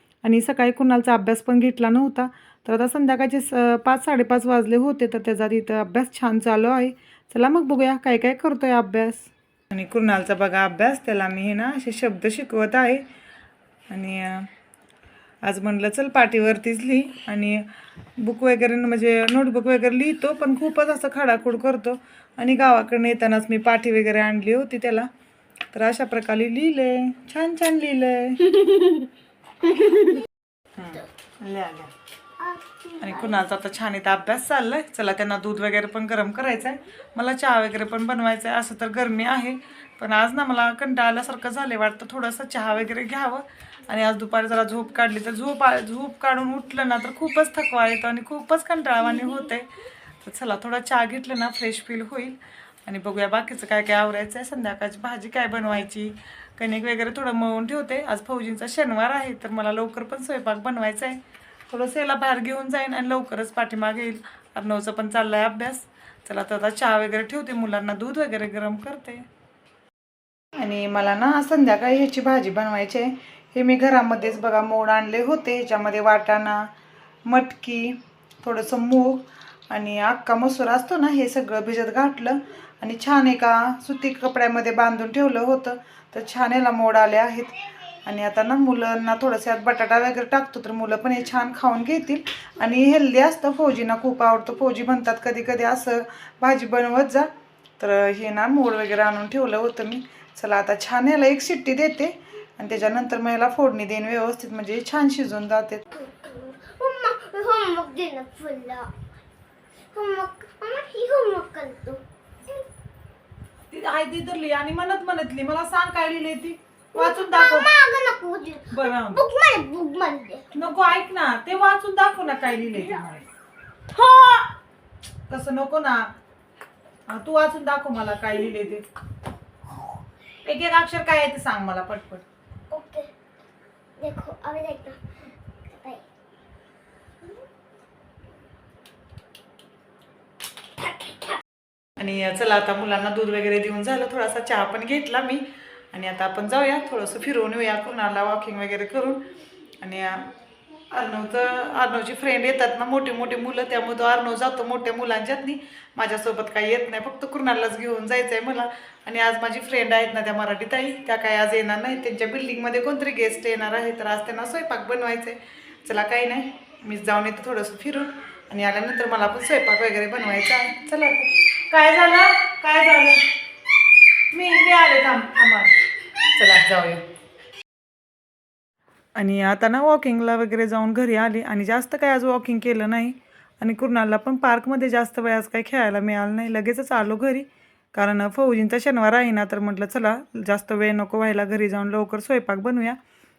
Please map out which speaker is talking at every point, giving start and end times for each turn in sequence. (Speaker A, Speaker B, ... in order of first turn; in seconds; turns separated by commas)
Speaker A: 0.2-13.1, Speaker A: 13.9-14.5, Speaker A: 15.4-17.7, Speaker A: 18.2-25.1, Speaker A: 25.7-28.6, Speaker B: 29.9-30.2, Speaker A: 30.8-31.9, Speaker B: 32.4-33.4, Speaker A: 33.0-69.2, Speaker A: 70.6-76.7, Speaker A: 77.3-105.9, Speaker B: 105.9-108.9, Speaker B: 109.9-112.6, Speaker A: 113.7-117.7, Speaker B: 116.9-120.5, Speaker A: 118.7-119.2, Speaker A: 120.5-123.2, Speaker B: 123.9-124.5, Speaker A: 125.3-126.1, Speaker A: 127.1-128.9, Speaker A: 130.4-132.3, Speaker B: 132.7-133.1, Speaker B: 134.0-135.0, Speaker B: 135.7-136.1, Speaker A: 142.0-149.2, Speaker A: 149.8-150.3, Speaker A: 150.9-173.2, Speaker A: 174.3-175.8, Speaker A: 176.3-177.0, Speaker A: 179.2-193.0